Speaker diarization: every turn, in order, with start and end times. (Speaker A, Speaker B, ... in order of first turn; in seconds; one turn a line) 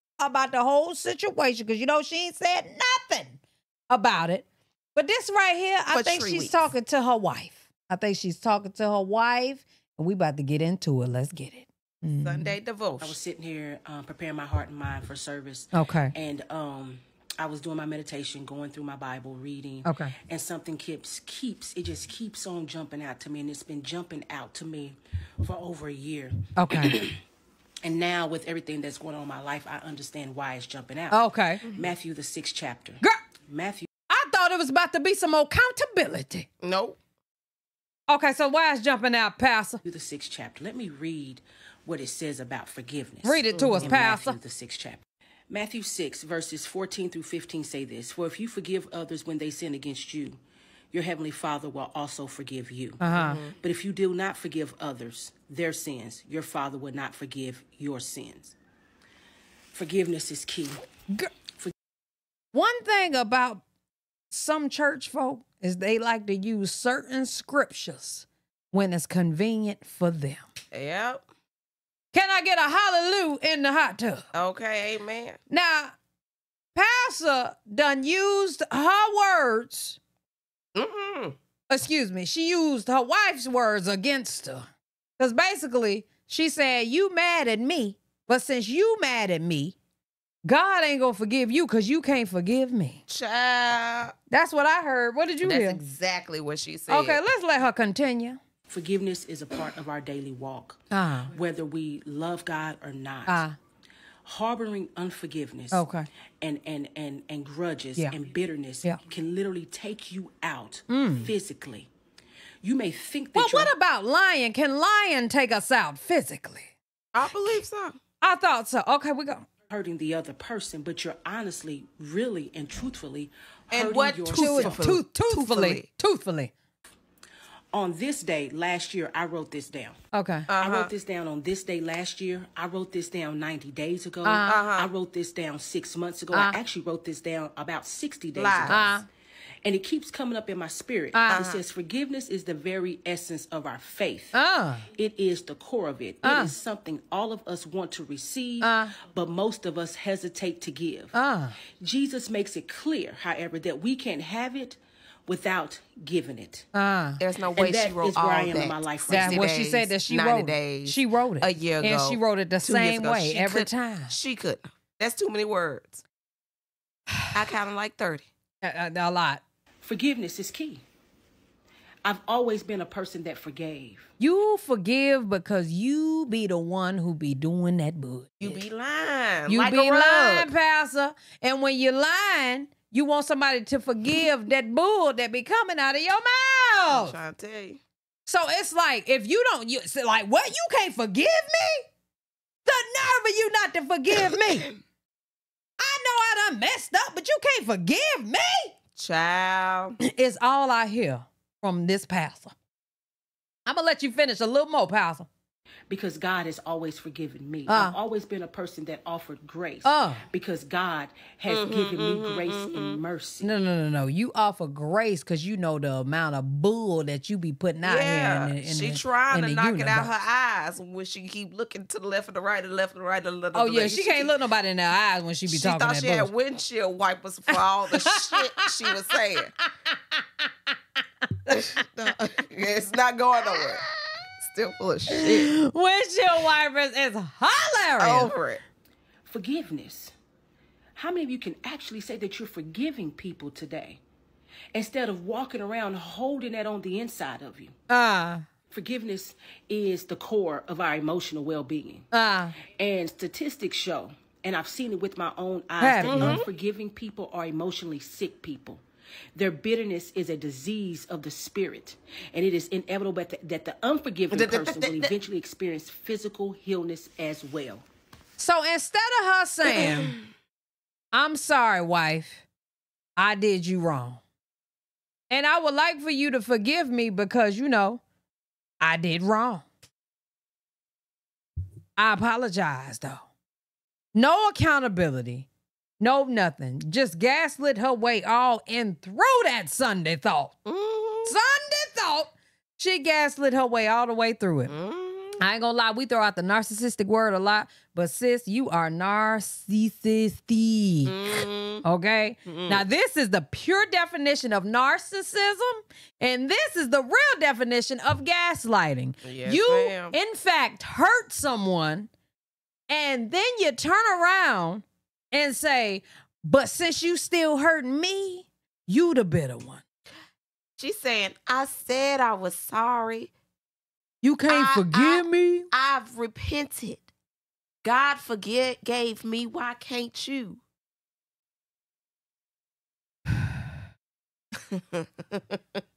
Speaker A: 0.2-12.6
Speaker B: 5.9-6.7
Speaker B: 12.2-13.2
Speaker C: 13.0-27.2
Speaker A: 15.7-16.1
Speaker A: 19.8-20.1
Speaker A: 26.6-27.0
Speaker C: 27.8-33.9
Speaker A: 31.1-31.6
Speaker A: 34.1-36.5
Speaker B: 36.6-37.0
Speaker A: 38.1-39.8
Speaker C: 39.8-50.4
Speaker A: 43.2-44.4
Speaker B: 43.5-44.0
Speaker C: 50.9-58.5
Speaker A: 53.0-53.4
Speaker B: 53.1-53.6
Speaker C: 59.7-60.8
Speaker A: 62.5-63.6
Speaker A: 64.3-70.5
Speaker B: 70.7-71.2
Speaker A: 72.1-74.2
Speaker B: 74.3-75.4
Speaker A: 75.5-75.9
Speaker A: 76.8-80.0
Speaker B: 80.8-81.4
Speaker A: 81.7-84.7
Speaker A: 85.2-89.8
Speaker A: 90.5-93.0
Speaker B: 93.1-94.1
Speaker A: 94.3-95.8
Speaker B: 95.4-97.2
Speaker A: 96.9-98.4
Speaker C: 98.7-103.5
Speaker A: 100.9-101.3
Speaker A: 103.3-103.6
Speaker C: 104.2-105.8
Speaker A: 105.7-106.1
Speaker C: 106.4-111.9
Speaker A: 110.9-111.3
Speaker C: 112.6-113.7
Speaker A: 113.3-116.7
Speaker B: 117.1-118.0
Speaker A: 118.2-119.5
Speaker C: 119.7-124.8
Speaker B: 123.7-125.9
Speaker A: 124.3-126.5
Speaker C: 127.7-130.0
Speaker A: 130.1-130.5
Speaker B: 130.5-130.9
Speaker C: 130.6-139.0
Speaker A: 134.2-134.6
Speaker B: 134.5-134.9
Speaker A: 136.3-136.6
Speaker B: 138.3-138.9
Speaker A: 138.7-139.1
Speaker C: 139.6-144.3
Speaker A: 141.1-141.4
Speaker B: 141.3-141.6
Speaker A: 144.3-144.9
Speaker C: 144.9-151.1
Speaker A: 146.2-146.5
Speaker A: 148.6-148.9
Speaker A: 151.1-151.6
Speaker C: 151.8-156.7
Speaker A: 156.7-157.2
Speaker B: 157.2-166.0
Speaker C: 157.5-159.5
Speaker A: 159.1-164.1
Speaker B: 167.3-168.3
Speaker A: 168.6-169.4
Speaker C: 169.8-170.8
Speaker C: 172.0-174.1
Speaker A: 174.2-178.6
Speaker B: 178.4-180.5
Speaker A: 179.5-187.2
Speaker B: 186.9-187.8
Speaker A: 188.3-191.9
Speaker A: 192.7-194.7
Speaker B: 194.1-194.7
Speaker A: 195.8-198.7
Speaker B: 199.0-200.0
Speaker A: 200.0-202.5
Speaker A: 203.7-205.3
Speaker C: 205.9-213.5
Speaker A: 207.7-208.0
Speaker A: 209.8-210.2
Speaker B: 211.5-213.0
Speaker A: 213.4-220.1
Speaker B: 217.8-224.3
Speaker A: 223.5-226.3
Speaker B: 225.5-229.5
Speaker A: 228.1-228.4
Speaker B: 231.5-233.8
Speaker B: 234.4-235.5
Speaker A: 235.1-238.3
Speaker B: 238.0-238.6
Speaker C: 239.3-240.1
Speaker C: 241.0-244.0
Speaker C: 244.7-247.7
Speaker A: 247.9-248.4
Speaker C: 248.7-252.1
Speaker A: 252.1-252.6
Speaker C: 252.8-258.8
Speaker A: 255.8-256.4
Speaker B: 256.0-256.5
Speaker C: 259.4-267.9
Speaker B: 264.3-265.1
Speaker A: 268.4-270.1
Speaker B: 269.7-270.2
Speaker A: 271.1-272.4
Speaker A: 273.2-274.2
Speaker A: 275.3-278.0
Speaker A: 278.8-279.6
Speaker A: 282.0-283.2
Speaker A: 284.1-285.5
Speaker A: 286.0-290.6
Speaker B: 290.6-291.4
Speaker A: 291.3-294.7
Speaker B: 294.7-295.4
Speaker A: 295.4-301.1
Speaker B: 301.1-301.8
Speaker A: 301.8-312.1
Speaker B: 302.5-302.9
Speaker B: 309.2-310.2
Speaker A: 312.9-319.8
Speaker B: 320.8-323.3
Speaker A: 324.2-325.7
Speaker B: 324.5-327.1
Speaker B: 327.8-330.6
Speaker B: 334.7-335.6